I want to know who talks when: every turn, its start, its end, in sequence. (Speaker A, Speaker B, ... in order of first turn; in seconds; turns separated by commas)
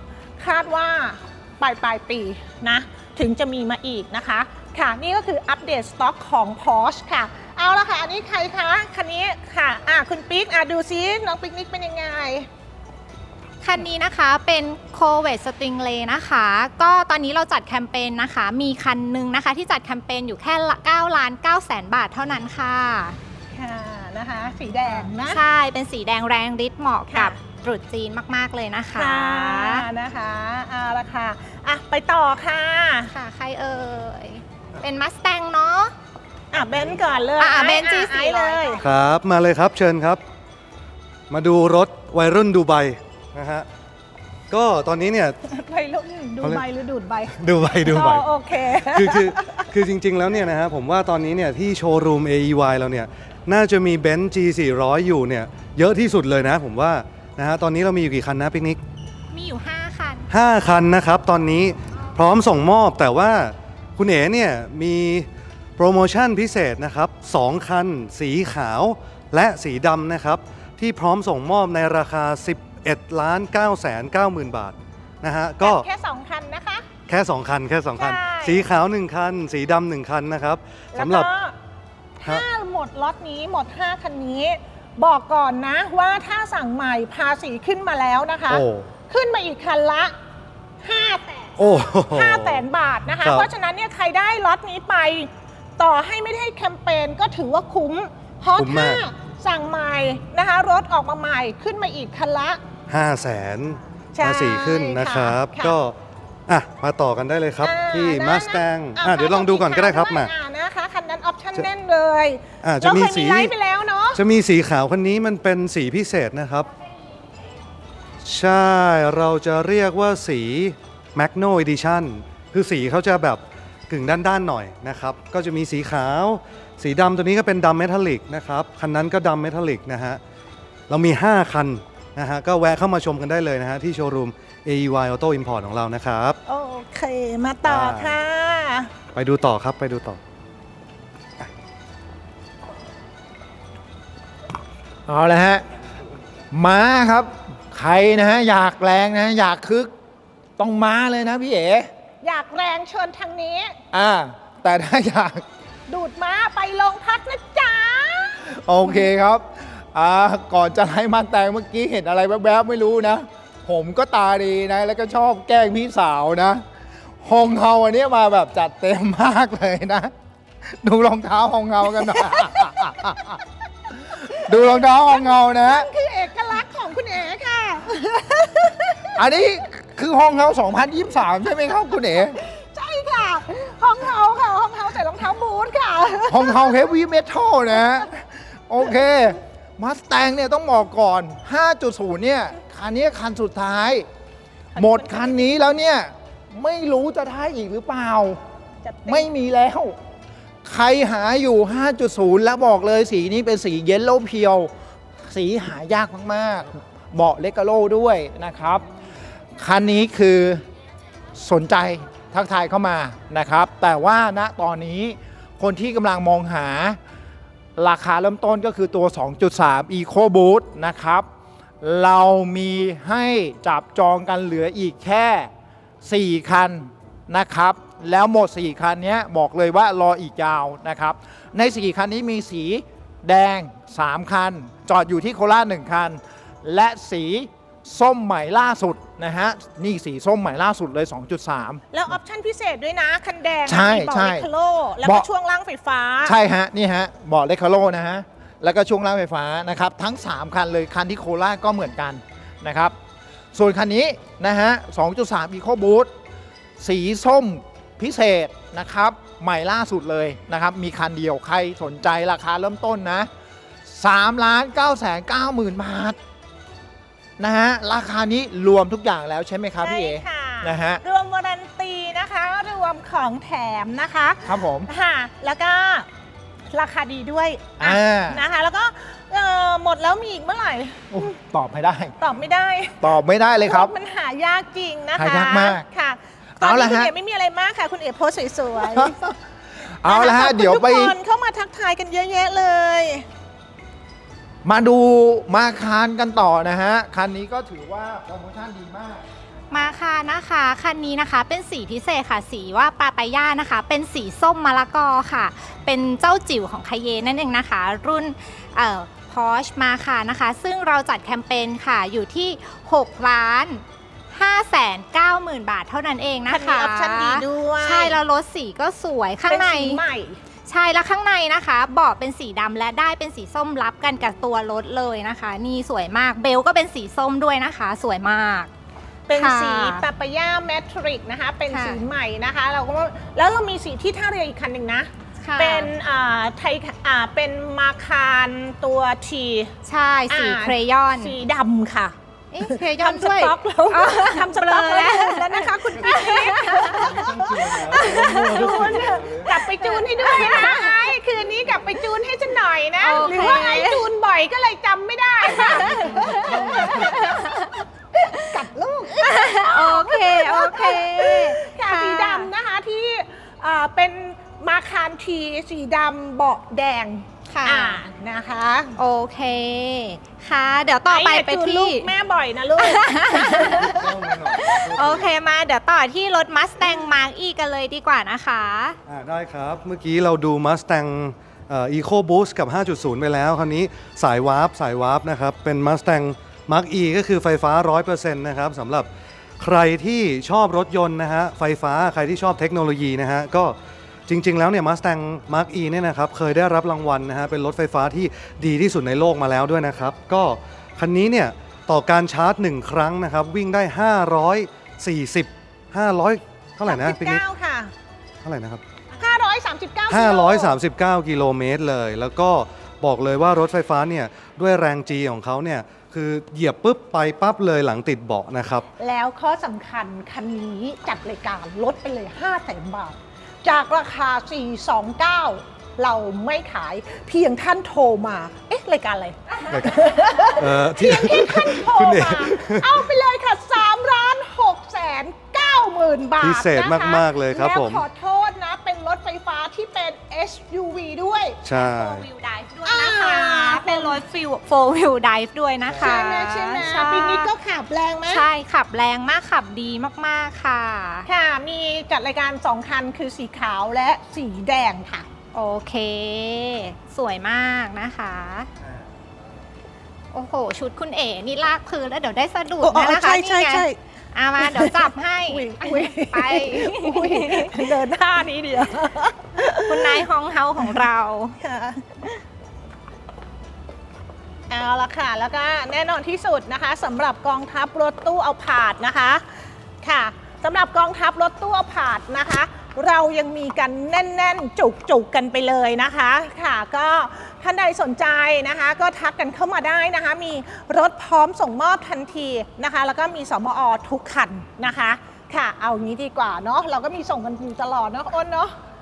Speaker A: 0.4-12.5, Speaker B: 13.6-23.2, Speaker A: 23.5-25.4, Speaker B: 25.2-29.9, Speaker A: 27.1-27.4, Speaker A: 28.9-33.1, Speaker B: 33.1-35.9, Speaker A: 36.5-38.8, Speaker B: 37.4-38.8, Speaker C: 38.8-40.2, Speaker C: 41.3-43.7, Speaker C: 44.5-45.4, Speaker A: 45.4-49.7, Speaker C: 47.3-58.8, Speaker B: 59.3-60.3, Speaker C: 60.3-75.8, Speaker A: 75.6-76.8, Speaker C: 77.1-81.3, Speaker A: 78.0-78.6, Speaker A: 80.9-81.5, Speaker A: 82.2-90.1, Speaker C: 88.5-88.8, Speaker A: 90.8-102.6, Speaker C: 91.6-92.6, Speaker C: 93.2-93.5, Speaker C: 98.6-99.0, Speaker C: 102.9-105.9, Speaker A: 104.1-105.8, Speaker C: 106.5-110.3, Speaker A: 107.6-114.2, Speaker C: 112.6-113.5, Speaker C: 114.1-116.7, Speaker C: 118.2-130.2, Speaker C: 130.9-136.4, Speaker A: 136.5-138.9, Speaker C: 137.6-138.1, Speaker C: 139.1-140.2, Speaker D: 145.1-145.6, Speaker D: 146.5-149.9, Speaker D: 150.6-151.9, Speaker A: 152.2-153.8, Speaker D: 153.9-155.4, Speaker A: 155.9-158.5, Speaker D: 158.5-166.6, Speaker D: 167.2-170.1, Speaker D: 170.6-173.4, Speaker A: 172.1-172.6, Speaker D: 174.0-175.9, Speaker A: 174.3-179.2, Speaker D: 179.1-182.4, Speaker A: 182.3-186.7, Speaker D: 186.3-194.1, Speaker A: 194.7-195.4, Speaker D: 194.8-198.4, Speaker A: 198.8-199.3, Speaker D: 199.1-199.9, Speaker D: 200.6-204.7, Speaker D: 205.3-208.8, Speaker D: 209.6-210.6, Speaker D: 211.3-217.0, Speaker D: 217.8-221.3, Speaker D: 221.8-225.5, Speaker D: 226.0-241.8, Speaker A: 241.9-246.3, Speaker D: 243.7-244.5, Speaker D: 246.2-252.9, Speaker D: 253.5-256.1, Speaker D: 256.8-263.3, Speaker D: 263.9-266.2, Speaker D: 267.4-271.0, Speaker A: 269.8-276.1, Speaker D: 274.4-274.9, Speaker A: 276.7-281.3, Speaker D: 277.8-278.4, Speaker D: 281.1-282.1, Speaker A: 282.2-283.0, Speaker D: 283.0-283.9, Speaker A: 283.6-289.1, Speaker D: 285.2-285.8, Speaker D: 286.6-287.1, Speaker D: 288.8-291.1, Speaker A: 290.0-293.2, Speaker D: 294.6-299.2, Speaker B: 299.7-320.0, Speaker A: 316.5-318.2, Speaker A: 319.5-320.4, Speaker B: 320.6-328.7, Speaker A: 329.3-339.7, Speaker B: 329.3-330.0, Speaker B: 331.7-332.0, Speaker B: 335.4-335.9, Speaker B: 339.8-341.4, Speaker A: 340.3-369.0, Speaker B: 342.5-351.1, Speaker C: 347.0-349.5, Speaker B: 353.0-354.1, Speaker B: 355.8-357.8, Speaker C: 355.9-357.2, Speaker B: 359.1-362.5, Speaker B: 367.5-368.0, Speaker B: 369.0-372.1, Speaker A: 371.1-374.0, Speaker B: 372.8-379.0, Speaker C: 373.8-375.3, Speaker C: 379.1-389.1, Speaker C: 389.6-393.7, Speaker C: 394.3-407.4, Speaker A: 406.8-407.9, Speaker C: 408.4-408.8, Speaker A: 409.2-410.7, Speaker C: 410.1-418.9, Speaker A: 419.0-441.6, Speaker C: 429.7-433.0, Speaker C: 436.4-438.0, Speaker C: 441.6-442.3, Speaker B: 441.7-447.5, Speaker A: 442.8-444.2, Speaker C: 445.9-446.2, Speaker A: 445.9-448.4, Speaker B: 448.3-451.3, Speaker A: 451.3-455.3, Speaker B: 455.5-458.7, Speaker B: 460.3-468.0, Speaker A: 462.8-464.0, Speaker A: 464.6-470.2, Speaker B: 469.9-471.6, Speaker A: 471.6-472.3, Speaker A: 474.7-479.4, Speaker A: 480.0-498.7